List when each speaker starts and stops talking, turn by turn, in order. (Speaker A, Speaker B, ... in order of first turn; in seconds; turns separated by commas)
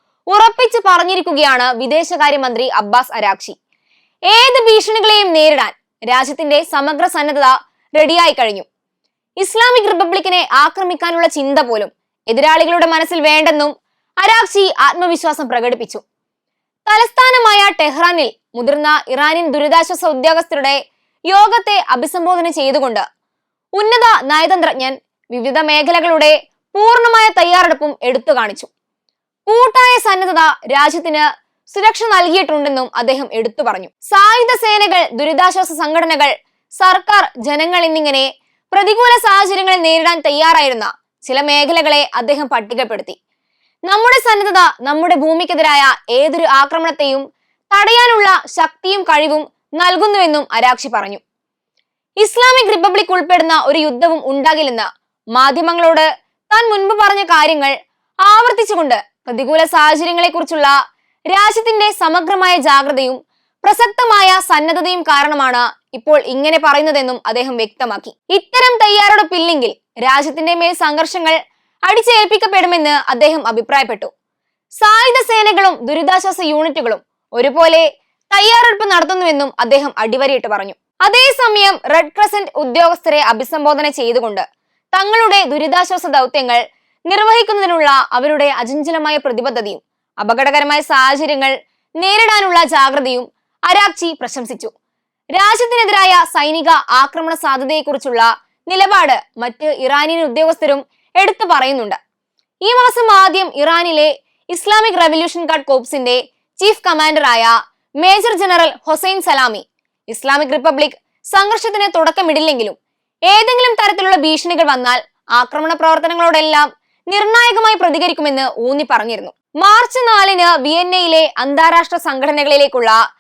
Speaker A: 0.3-3.5, Speaker A: 4.3-8.7, Speaker A: 9.4-16.0, Speaker A: 16.9-20.8, Speaker A: 21.3-23.1, Speaker A: 23.8-28.7, Speaker A: 29.5-43.2, Speaker A: 43.9-51.2, Speaker A: 52.2-57.7, Speaker A: 58.2-60.7, Speaker A: 61.3-74.1, Speaker A: 74.8-94.7, Speaker A: 95.3-102.0, Speaker A: 102.6-112.8, Speaker A: 113.3-123.0